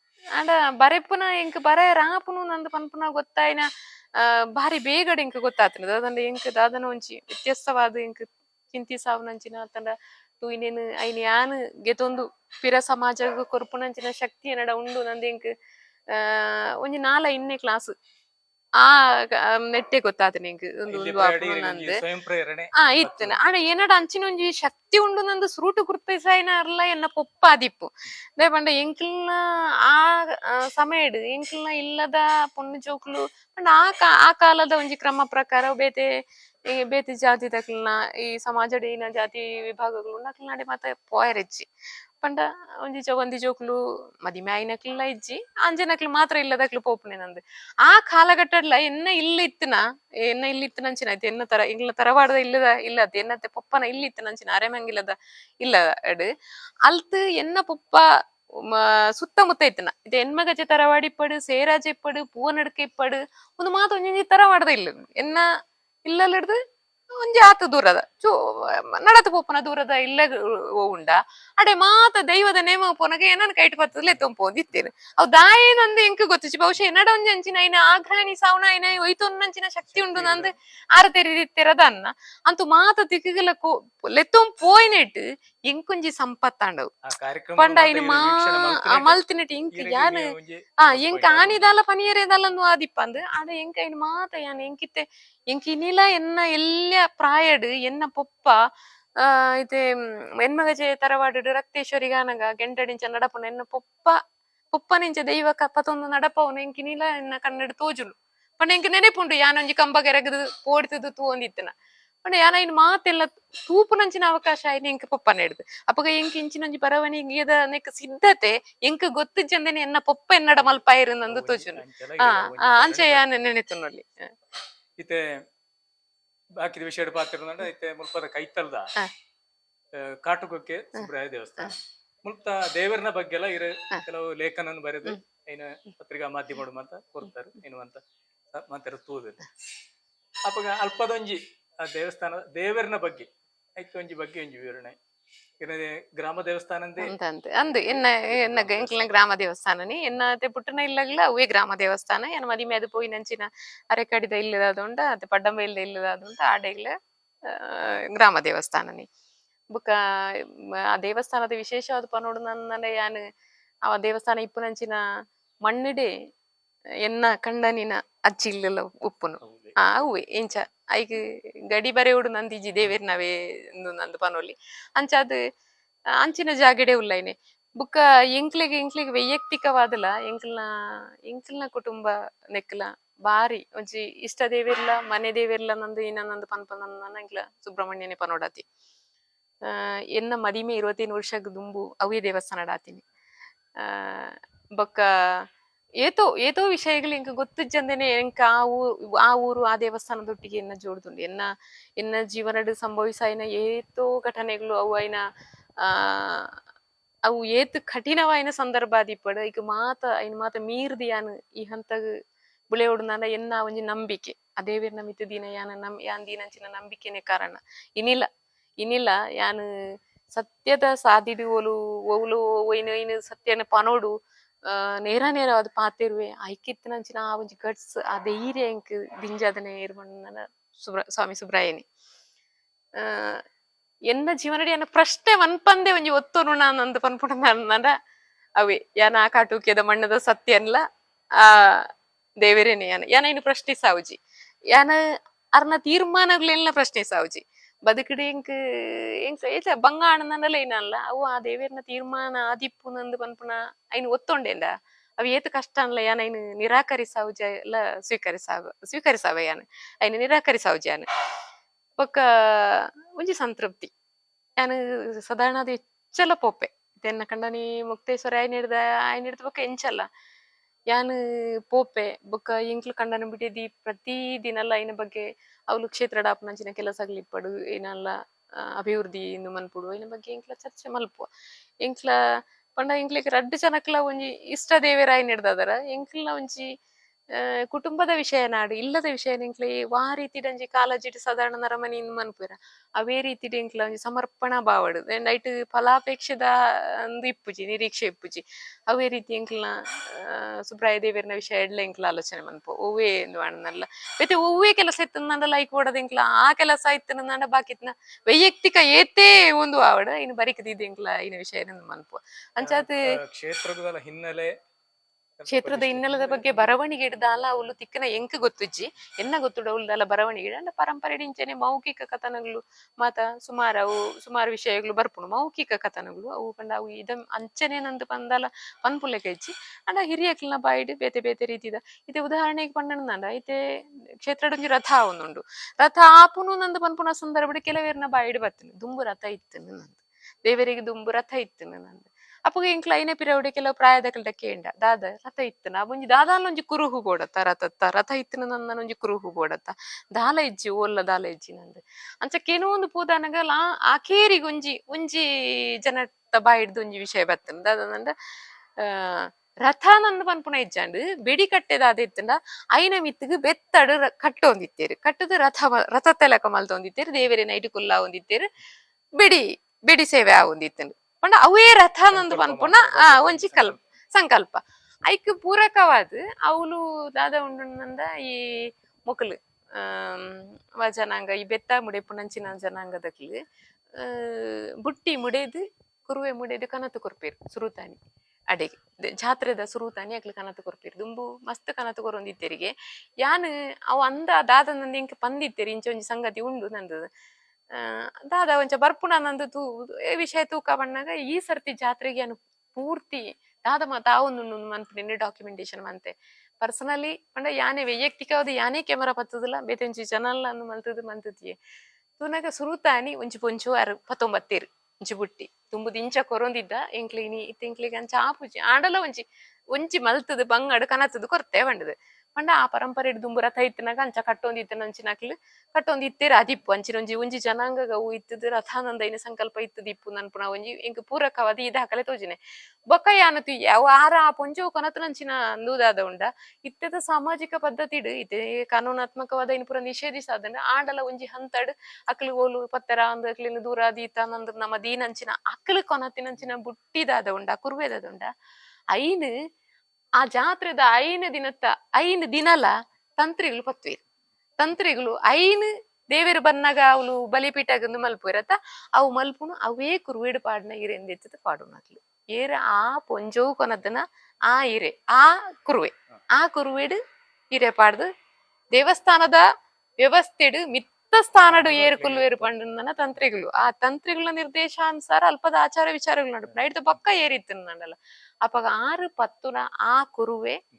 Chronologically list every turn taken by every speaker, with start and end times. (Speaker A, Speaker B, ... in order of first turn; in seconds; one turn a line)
Speaker A: 0.3-15.5
Speaker A: 16.1-17.9
Speaker A: 18.8-22.0
Speaker B: 20.9-23.4
Speaker A: 22.8-36.1
Speaker A: 36.7-41.6
Speaker A: 42.2-56.3
Speaker A: 56.8-58.0
Speaker A: 58.7-65.4
Speaker A: 66.0-66.6
Speaker A: 67.1-86.9
Speaker B: 79.8-80.5
Speaker B: 87.0-89.2
Speaker A: 87.6-90.3
Speaker B: 89.7-91.6
Speaker A: 90.8-98.6
Speaker A: 99.2-99.8
Speaker A: 100.4-104.2
Speaker A: 104.7-111.7
Speaker A: 112.2-124.3
Speaker B: 120.5-123.2
Speaker B: 125.0-125.2
Speaker B: 126.6-128.9
Speaker B: 129.9-139.4
Speaker B: 140.4-144.9
Speaker B: 145.6-147.1
Speaker A: 147.0-156.9
Speaker B: 147.6-149.3
Speaker A: 157.5-159.1
Speaker A: 159.7-163.2
Speaker A: 163.9-165.0
Speaker A: 165.6-166.1
Speaker A: 167.0-175.4
Speaker B: 169.4-169.8
Speaker A: 176.2-180.7
Speaker A: 181.3-188.6
Speaker A: 189.7-193.0
Speaker A: 193.8-195.3
Speaker A: 196.0-201.5
Speaker A: 202.0-205.2
Speaker A: 205.8-206.5
Speaker A: 207.3-212.0
Speaker A: 212.7-218.3
Speaker A: 218.8-219.6
Speaker A: 220.3-224.1
Speaker A: 224.7-231.8
Speaker A: 233.0-233.4
Speaker A: 234.1-237.9
Speaker A: 238.6-240.8
Speaker A: 241.4-241.9
Speaker A: 242.4-244.2
Speaker A: 244.7-245.0
Speaker A: 245.5-261.1
Speaker A: 262.0-263.9
Speaker A: 264.6-270.0
Speaker A: 270.9-281.3
Speaker A: 281.8-282.1
Speaker A: 282.7-286.7
Speaker A: 287.4-296.5
Speaker A: 297.0-313.0
Speaker B: 312.6-314.5
Speaker B: 315.4-316.8
Speaker A: 315.5-333.6
Speaker A: 334.2-358.1
Speaker A: 358.8-368.4
Speaker A: 369.2-383.4
Speaker B: 372.1-373.8
Speaker A: 384.0-388.0
Speaker A: 388.5-397.1
Speaker A: 397.7-411.5
Speaker A: 412.2-419.2
Speaker A: 419.7-432.4
Speaker A: 432.9-448.3
Speaker A: 448.9-449.3
Speaker A: 450.2-454.0
Speaker A: 454.6-467.0
Speaker A: 467.5-468.1
Speaker A: 468.7-469.4
Speaker A: 470.0-480.6
Speaker B: 471.5-472.5